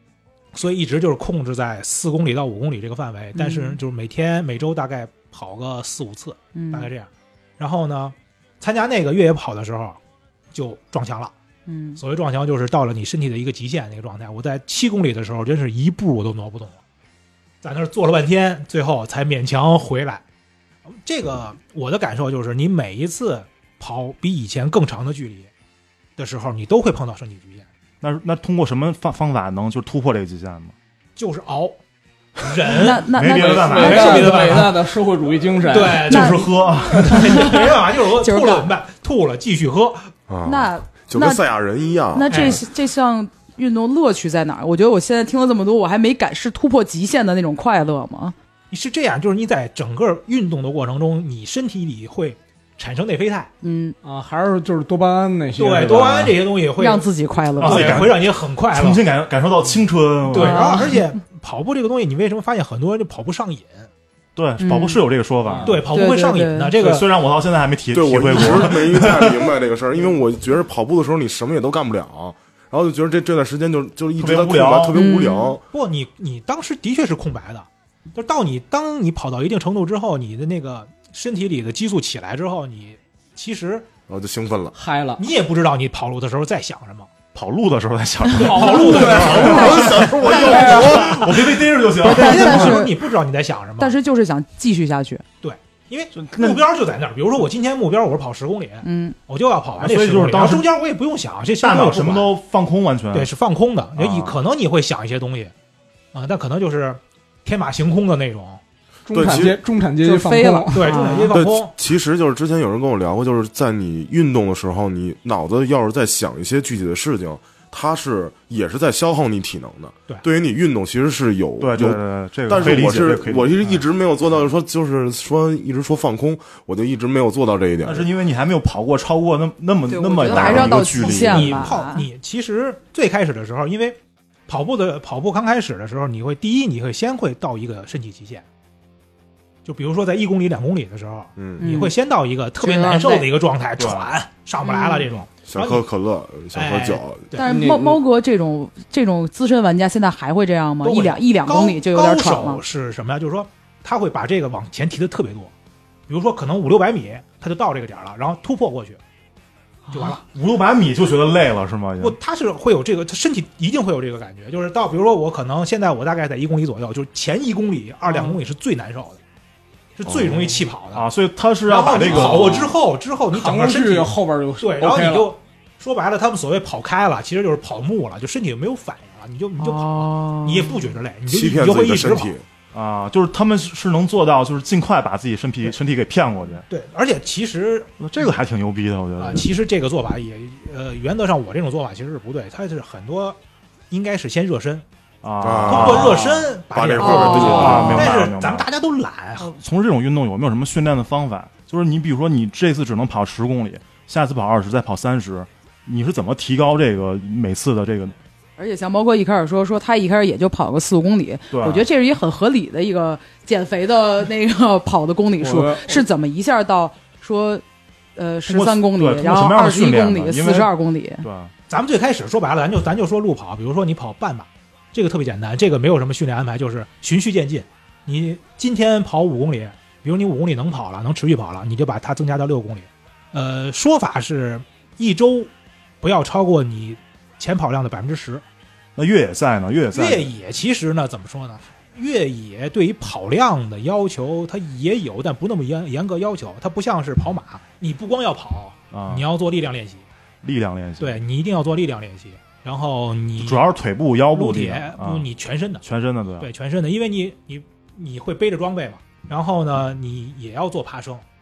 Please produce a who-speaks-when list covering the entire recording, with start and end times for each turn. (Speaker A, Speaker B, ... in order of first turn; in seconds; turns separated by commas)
Speaker A: 0.5-10.0, Speaker B: 3.4-3.8, Speaker B: 6.5-6.9, Speaker A: 10.5-11.3, Speaker B: 11.7-12.0, Speaker A: 12.0-16.8, Speaker A: 17.6-20.2, Speaker A: 20.9-25.5, Speaker A: 26.2-27.7, Speaker C: 28.0-30.8, Speaker A: 31.1-31.8, Speaker A: 32.4-34.7, Speaker B: 32.7-34.6, Speaker C: 33.1-34.6, Speaker D: 33.3-36.3, Speaker A: 35.7-40.1, Speaker C: 36.1-37.5, Speaker B: 36.1-36.5, Speaker B: 37.1-38.7, Speaker E: 40.3-42.6, Speaker B: 40.5-41.4, Speaker B: 42.1-48.4, Speaker A: 42.3-42.6, Speaker A: 48.7-53.5, Speaker B: 53.6-54.0, Speaker D: 54.0-56.3, Speaker A: 55.6-59.0, Speaker C: 56.0-56.3, Speaker B: 56.8-58.1, Speaker C: 57.6-60.8, Speaker A: 60.3-63.9, Speaker B: 60.3-61.0, Speaker C: 64.4-65.9, Speaker B: 64.6-65.0, Speaker D: 65.5-65.8, Speaker A: 65.6-67.1, Speaker B: 65.9-66.7, Speaker C: 66.8-69.5, Speaker E: 67.9-75.6, Speaker C: 74.2-75.0, Speaker B: 74.9-75.6, Speaker A: 75.7-83.9, Speaker E: 84.1-84.8, Speaker D: 84.8-85.2, Speaker A: 85.2-87.2, Speaker C: 87.3-92.8, Speaker A: 88.3-94.0, Speaker D: 88.4-91.1, Speaker B: 88.6-90.0, Speaker E: 89.1-91.2, Speaker B: 92.0-93.0, Speaker B: 93.8-95.2, Speaker A: 95.4-102.3, Speaker C: 96.1-96.6, Speaker B: 98.8-99.2, Speaker C: 99.8-100.7, Speaker C: 101.6-103.3, Speaker A: 103.1-105.5, Speaker C: 104.0-104.4, Speaker A: 106.1-108.6, Speaker D: 109.1-111.0, Speaker E: 109.1-109.6, Speaker B: 110.0-111.4, Speaker A: 110.7-111.7, Speaker E: 111.3-128.1, Speaker C: 121.6-123.8, Speaker C: 127.8-131.7, Speaker B: 129.9-132.1, Speaker A: 130.2-138.4, Speaker A: 139.6-145.9, Speaker E: 141.4-141.7, Speaker B: 141.6-141.9, Speaker B: 142.6-143.3, Speaker C: 143.8-144.1, Speaker B: 144.6-145.1, Speaker E: 145.4-147.3, Speaker A: 146.5-147.5, Speaker B: 147.4-152.6, Speaker D: 147.4-148.0, Speaker A: 150.8-155.5, Speaker A: 156.1-159.0, Speaker B: 159.9-160.2, Speaker A: 159.9-160.2, Speaker C: 160.3-162.2, Speaker A: 162.0-169.2, Speaker A: 170.0-171.1, Speaker C: 170.9-172.7, Speaker A: 171.7-182.3, Speaker D: 172.0-172.8, Speaker D: 173.3-175.3, Speaker B: 179.6-180.9, Speaker E: 181.3-182.4, Speaker C: 182.7-186.6, Speaker A: 186.7-188.0, Speaker C: 188.0-189.5, Speaker A: 189.2-193.4, Speaker A: 193.9-194.8, Speaker C: 195.2-196.5, Speaker E: 195.4-198.0, Speaker A: 195.7-199.5, Speaker B: 197.0-198.1, Speaker C: 197.3-198.7, Speaker C: 199.4-208.2, Speaker B: 208.6-217.6, Speaker C: 211.5-211.9, Speaker D: 215.4-216.1, Speaker B: 218.2-221.3, Speaker C: 218.5-220.7, Speaker C: 221.2-221.5, Speaker A: 221.7-235.5, Speaker A: 236.0-238.4, Speaker C: 239.0-240.3, Speaker A: 239.9-250.1, Speaker C: 248.9-249.3, Speaker C: 250.4-251.2, Speaker A: 251.0-253.6, Speaker C: 253.4-255.3, Speaker A: 254.3-255.8, Speaker C: 255.8-256.5, Speaker A: 256.4-261.2